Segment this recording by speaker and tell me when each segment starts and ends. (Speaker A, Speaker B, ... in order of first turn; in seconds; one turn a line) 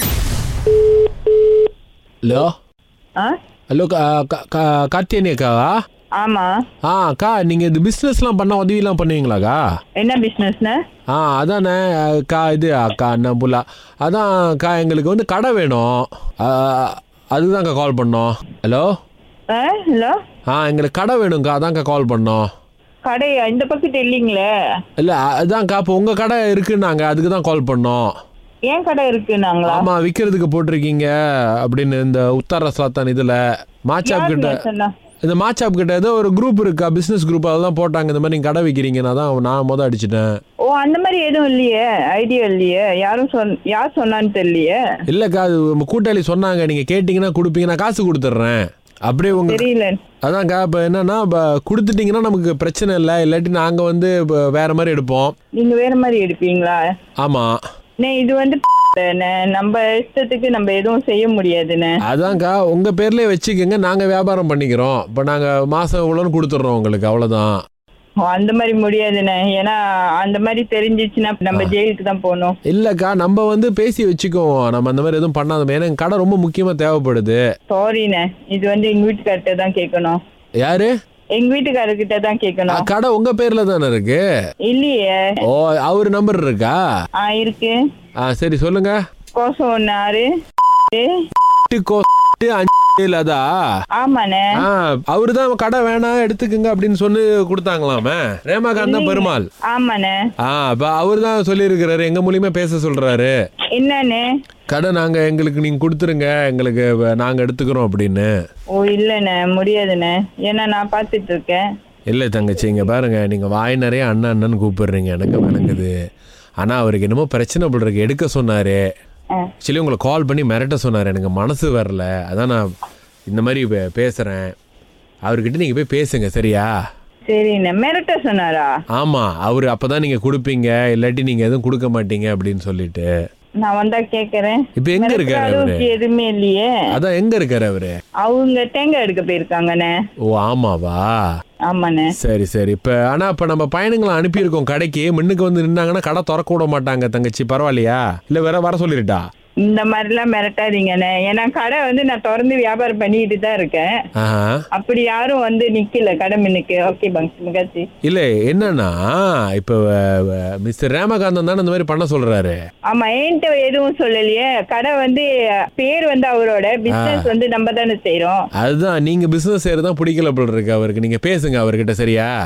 Speaker A: 2.2-2.5
Speaker A: 3.7-5.7
Speaker B: 6.2-6.5
Speaker A: 6.8-9.6
Speaker B: 10.0-10.8
Speaker A: 11.1-18.9
Speaker B: 19.5-20.1
Speaker A: 20.5-22.4
Speaker B: 23.0-24.5
Speaker A: 25.0-28.1
Speaker B: 28.7-29.9
Speaker A: 29.6-34.6
Speaker B: 34.0-34.9
Speaker A: 35.2-40.3
Speaker B: 40.6-44.8
Speaker A: 45.1-49.6
Speaker B: 49.3-50.0
Speaker A: 50.2-55.3
Speaker B: 55.5-56.8
Speaker A: 57.2-57.5
Speaker B: 58.0-62.0
Speaker A: 62.0-67.5
Speaker B: 68.2-72.5
Speaker A: 72.7-77.4
Speaker B: 77.7-80.2
Speaker A: 80.6-80.9
Speaker B: 81.3-82.9
Speaker A: 82.7-84.2
Speaker B: 84.7-85.4
Speaker A: 85.4-86.8
Speaker B: 87.2-87.8
Speaker A: 88.2-89.0
Speaker B: 89.3-90.3
Speaker B: 90.9-91.2
Speaker A: 91.7-93.6
Speaker B: 94.0-94.6
Speaker A: 94.6-99.5
Speaker B: 98.8-100.2
Speaker A: 100.4-103.3
Speaker B: 103.7-104.2
Speaker A: 104.7-108.3
Speaker B: 108.7-111.6
Speaker A: 112.1-115.9
Speaker A: 116.6-118.8
Speaker A: 119.6-122.7
Speaker A: 123.3-124.5
Speaker A: 125.3-126.7
Speaker B: 127.3-128.7
Speaker A: 128.9-133.1
Speaker B: 133.6-136.7
Speaker A: 134.8-135.9
Speaker A: 136.9-137.9
Speaker B: 138.2-139.9
Speaker A: 140.2-141.1
Speaker B: 141.7-142.1
Speaker A: 142.2-149.2
Speaker B: 149.6-153.9
Speaker A: 154.2-154.6
Speaker B: 154.7-157.9
Speaker A: 158.0-162.6
Speaker B: 162.9-168.4
Speaker A: 166.9-167.3
Speaker A: 168.6-172.3